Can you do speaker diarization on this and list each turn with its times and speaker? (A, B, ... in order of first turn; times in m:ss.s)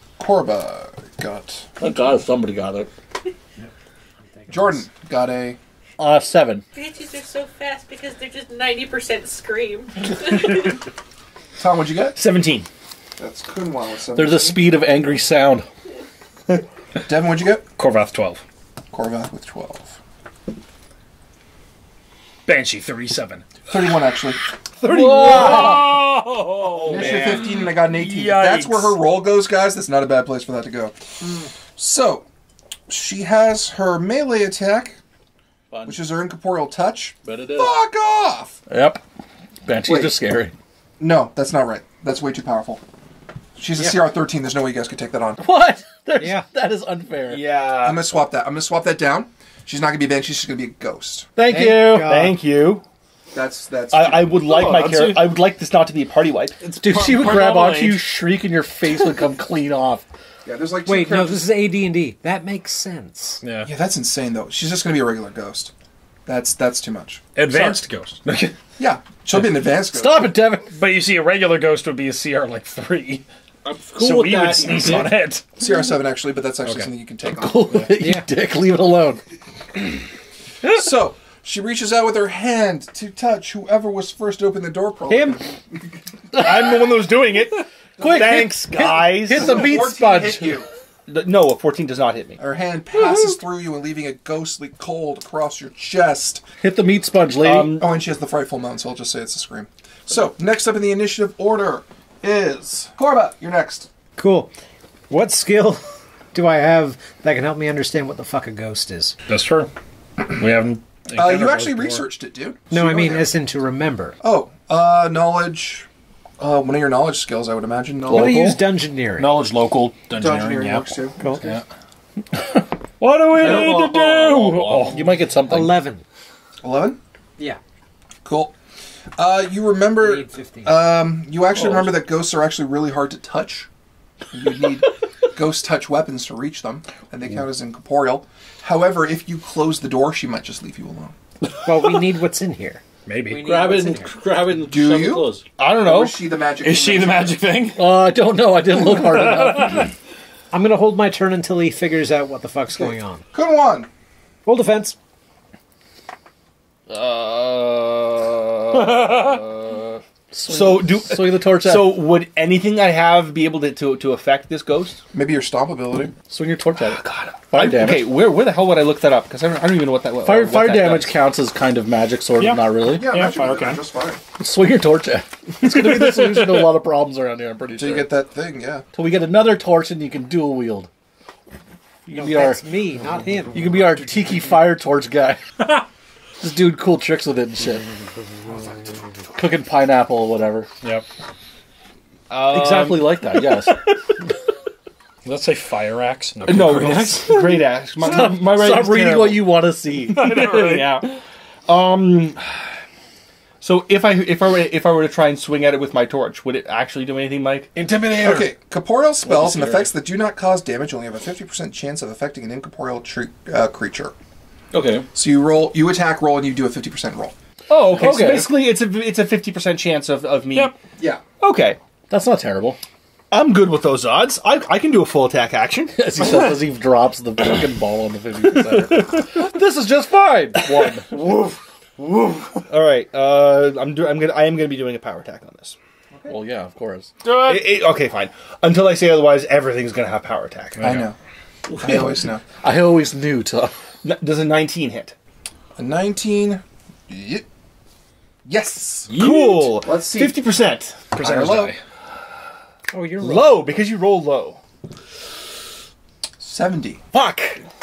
0:00.2-0:01.7 A
0:01.8-0:02.9 B
0:04.5-0:05.6 A
0:06.0-0:06.6 B
0:06.7-0:10.8 C
0:11.6-0:12.2 A
0:12.1-0:12.7 D
0:13.2-0:14.6 A
0:14.1-0:15.7 B
0:17.0-0:17.6 A
0:17.8-0:18.4 E
0:18.9-0:20.0 A
0:22.4-0:23.5 E
0:23.7-0:24.4 A
0:24.8-0:26.0 B
0:24.9-0:29.0 E
0:25.1-0:25.8 D
0:26.8-0:27.4 D
0:26.9-0:31.0 A
0:26.9-0:27.2 B
0:31.8-0:32.2 A
0:32.9-0:35.0 A
0:35.7-0:36.0 B
0:35.8-0:38.6 A
0:37.2-0:37.7 B
0:38.7-0:39.0 B
0:39.6-0:40.5 B
0:39.8-0:40.2 A
0:41.0-0:42.8 A
0:43.6-0:45.4 A
0:45.4-0:47.5 B
0:46.2-0:46.4 F
0:47.2-0:48.1 D
0:47.8-0:51.3 A
0:51.4-0:52.2 B
0:51.5-0:52.4 F
0:51.5-0:52.8 D
0:53.3-0:54.4 A
0:53.9-0:56.6 D
0:54.4-0:55.3 E
0:56.6-0:58.0 E
0:56.8-1:00.0 B
1:00.4-1:01.5 A
1:00.8-1:03.4 F
1:03.4-1:03.7 E
1:03.6-1:05.7 A
1:06.2-1:07.8 A
1:07.4-1:08.5 E
1:08.8-1:10.4 A
1:09.3-1:10.7 B
1:10.7-1:13.2 E
1:13.7-1:15.2 B
1:14.0-1:15.5 E
1:15.6-1:17.9 A
1:16.6-1:16.9 E
1:17.4-1:19.2 B
1:18.0-1:18.3 F
1:20.7-1:26.0 A
1:25.1-1:25.4 D
1:26.3-1:26.7 B
1:26.3-1:29.9 D
1:28.0-1:30.7 A
1:28.0-1:30.6 B
1:31.1-1:32.4 D
1:32.4-1:36.4 A
1:36.6-1:37.9 B
1:37.4-1:37.9 D
1:37.8-1:43.9 A
1:44.2-1:44.5 F
1:45.1-1:49.1 F
1:49.3-1:49.7 E
1:50.2-1:52.0 E
1:51.1-1:53.3 A
1:52.7-1:54.2 F
1:54.2-1:55.9 A
1:56.4-1:58.5 A
1:58.1-1:58.6 B
1:58.1-1:59.3 F
1:59.2-2:01.6 E
2:00.1-2:01.2 A
2:01.2-2:01.5 F
2:03.0-2:05.0 E
2:03.3-2:05.7 B
2:05.4-2:06.0 F
2:06.6-2:07.0 A
2:08.2-2:08.5 A
2:09.2-2:13.7 A
2:10.0-2:10.8 F
2:11.6-2:11.9 B
2:14.3-2:21.2 A
2:21.6-2:24.1 F
2:23.0-2:23.4 E
2:23.4-2:25.4 B
2:24.6-2:27.4 A
2:25.6-2:26.1 D
2:26.6-2:27.8 E
2:27.8-2:29.9 B
2:28.8-2:29.9 E
2:30.5-2:33.2 F
2:33.3-2:33.9 A
2:34.4-2:35.0 F
2:36.9-2:39.0 D
2:38.7-2:39.4 E
2:38.9-2:42.0 B
2:40.4-2:45.0 D
2:45.1-2:46.1 A
2:46.2-2:48.2 B
2:46.8-2:47.4 E
2:47.5-2:51.2 D
2:50.2-2:53.1 B
2:52.4-2:53.8 E
2:52.9-2:54.2 A
2:54.4-2:58.1 B
2:55.6-2:56.7 E
2:57.7-2:58.8 A
2:58.9-3:00.9 B
3:02.0-3:02.6 B
3:02.1-3:04.0 F
3:03.5-3:05.4 B
3:06.4-3:07.9 B
3:09.3-3:10.7 B
3:12.3-3:13.3 D
3:12.4-3:13.9 B
3:15.2-3:17.3 E
3:16.4-3:19.5 D
3:16.7-3:20.8 B
3:20.1-3:21.0 E
3:20.2-3:21.1 D
3:21.7-3:22.5 D
3:23.6-3:27.7 D
3:27.7-3:28.5 E
3:28.2-3:34.1 A
3:29.2-3:29.9 B
3:34.7-3:35.1 B
3:35.1-3:37.3 A
3:37.7-3:38.7 B
3:37.7-3:40.7 D
3:37.8-3:38.3 E
3:41.0-3:41.2 A
3:41.4-3:41.8 D
3:42.1-3:42.8 B
3:43.3-3:46.0 D
3:45.9-3:51.3 B
3:48.7-3:49.2 D
3:51.1-3:51.5 D
3:52.0-3:52.6 B
3:52.7-3:55.8 D
3:56.3-3:57.1 B
3:57.2-3:57.8 E
3:57.4-4:00.9 D
4:00.8-4:01.1 E
4:00.8-4:01.2 A
4:01.7-4:03.7 B
4:01.8-4:02.4 A
4:04.0-4:05.1 D
4:05.8-4:07.4 A
4:08.4-4:09.1 A
4:09.1-4:09.7 E
4:09.1-4:11.2 D
4:09.8-4:10.4 A
4:11.2-4:11.8 E
4:11.2-4:11.7 A
4:12.9-4:13.7 F
4:13.2-4:14.6 D
4:16.4-4:17.0 A
4:17.1-4:17.6 D